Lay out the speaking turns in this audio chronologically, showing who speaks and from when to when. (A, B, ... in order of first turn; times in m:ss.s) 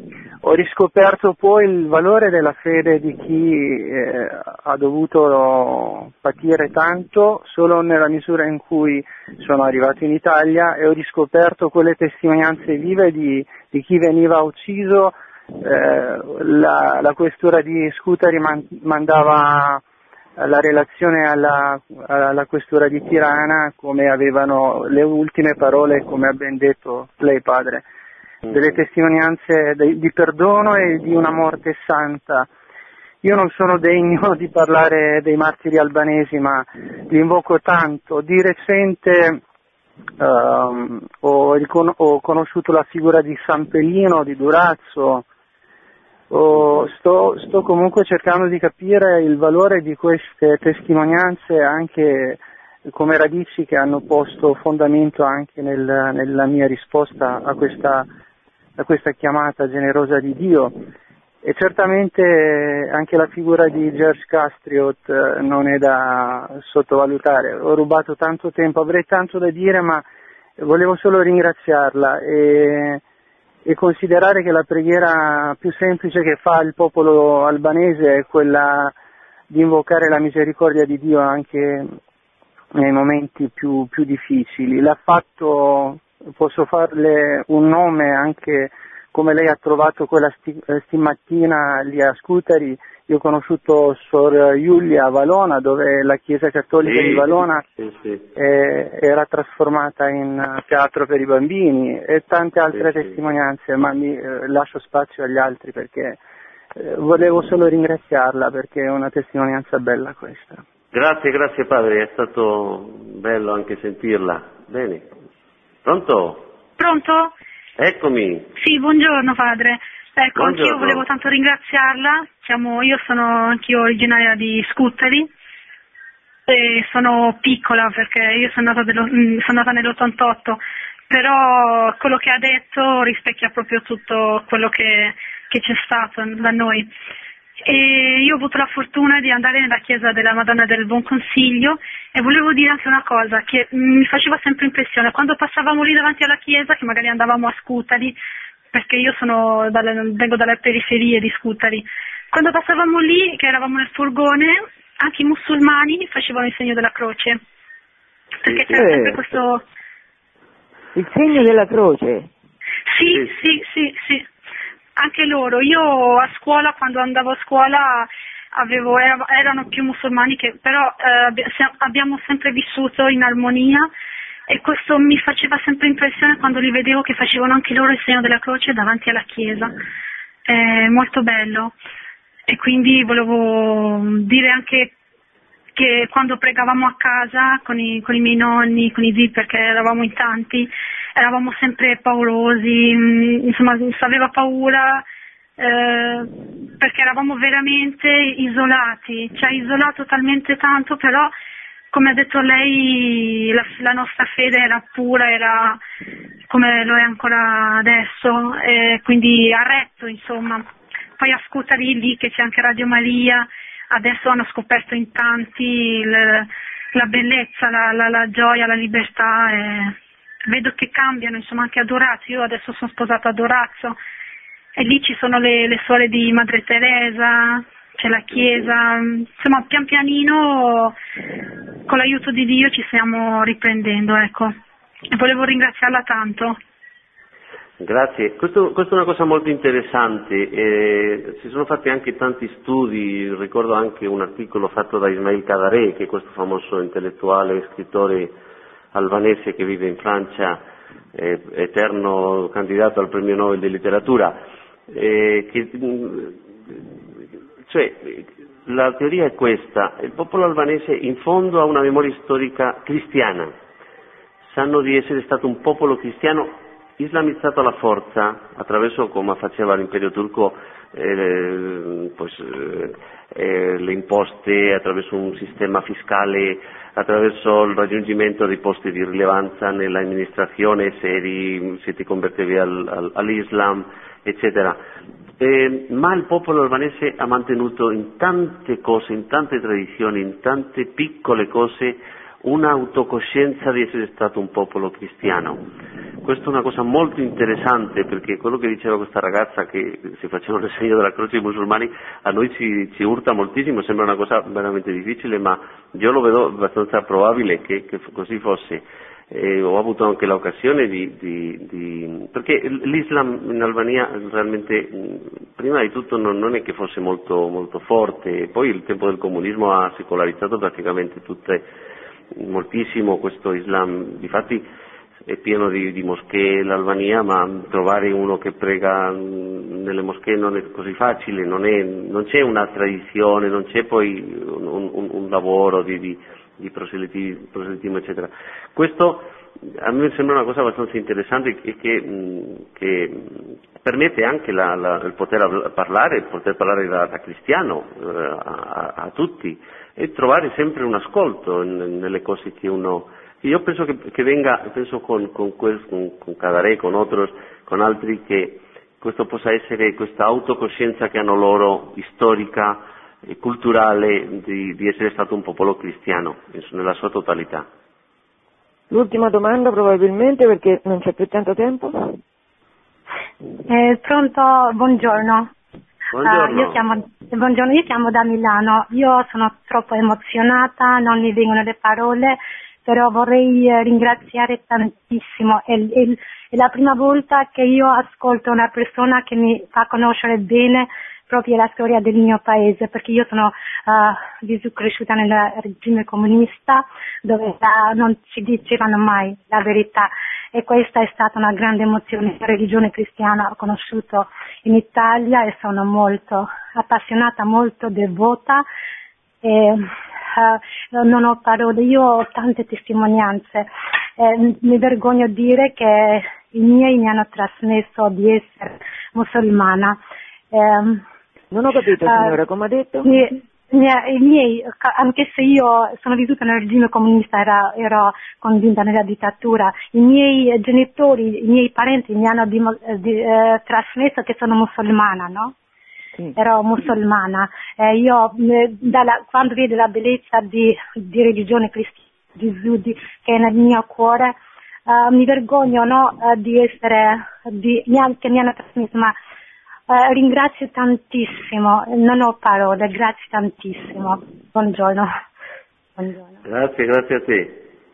0:00.4-0:19.8 A
0:20.4-0:27.9 A
0:28.5-0:28.8 B
0:28.5-0:32.5 A
0:33.2-0:39.4 A
0:40.2-0:45.2 A
0:46.3-0:58.1 A
0:58.8-1:00.7 A
1:01.4-1:10.0 A
1:10.6-1:13.0 A
1:13.6-1:18.9 A
1:19.5-1:21.9 A
1:22.7-1:37.6 A
1:36.8-1:38.3 B
1:38.4-1:46.2 A
1:42.7-1:43.2 B
1:46.8-1:50.6 A
1:50.9-1:55.0 B
1:55.8-1:56.5 B
1:56.8-1:57.3 C
1:57.8-1:58.5 B
1:58.6-2:05.3 C
2:00.4-2:01.0 B
2:06.5-2:16.9 C
2:17.6-2:28.2 C
2:28.7-2:37.4 C
2:38.4-2:39.6 C
2:38.7-2:39.2 D
2:40.9-2:42.3 D
2:42.9-2:44.3 C
2:45.0-2:53.9 C
2:54.5-2:59.7 C
3:00.4-3:01.7 C
3:02.5-3:04.9 C
3:05.8-3:15.0 C
3:15.6-3:21.3 C
3:21.9-3:25.8 C
3:26.5-3:30.6 C
3:31.2-3:40.0 C
3:40.5-3:44.0 C
3:44.8-3:51.0 C
3:48.4-3:48.6 B
3:51.9-3:54.6 C
3:55.1-3:56.6 C
3:57.8-4:08.4 B
4:08.9-4:10.6 B
4:11.1-4:16.8 B
4:17.7-4:23.5 B
4:24.4-4:44.8 B
4:45.4-4:55.6 B
4:56.2-5:21.6 B
5:22.4-5:24.6 B
5:25.2-6:07.6 B
6:08.9-6:12.2 D
6:13.7-6:15.5 E
6:16.1-6:16.8 B
6:16.2-6:48.6 E
6:49.4-7:00.0 E
7:00.5-7:01.0 E
7:01.5-7:03.1 D
7:02.1-7:02.4 E
7:03.0-7:15.5 E
7:16.4-7:24.3 E
7:24.9-7:29.2 E
7:29.9-7:35.1 E
7:36.0-7:36.4 E
7:36.4-7:37.6 B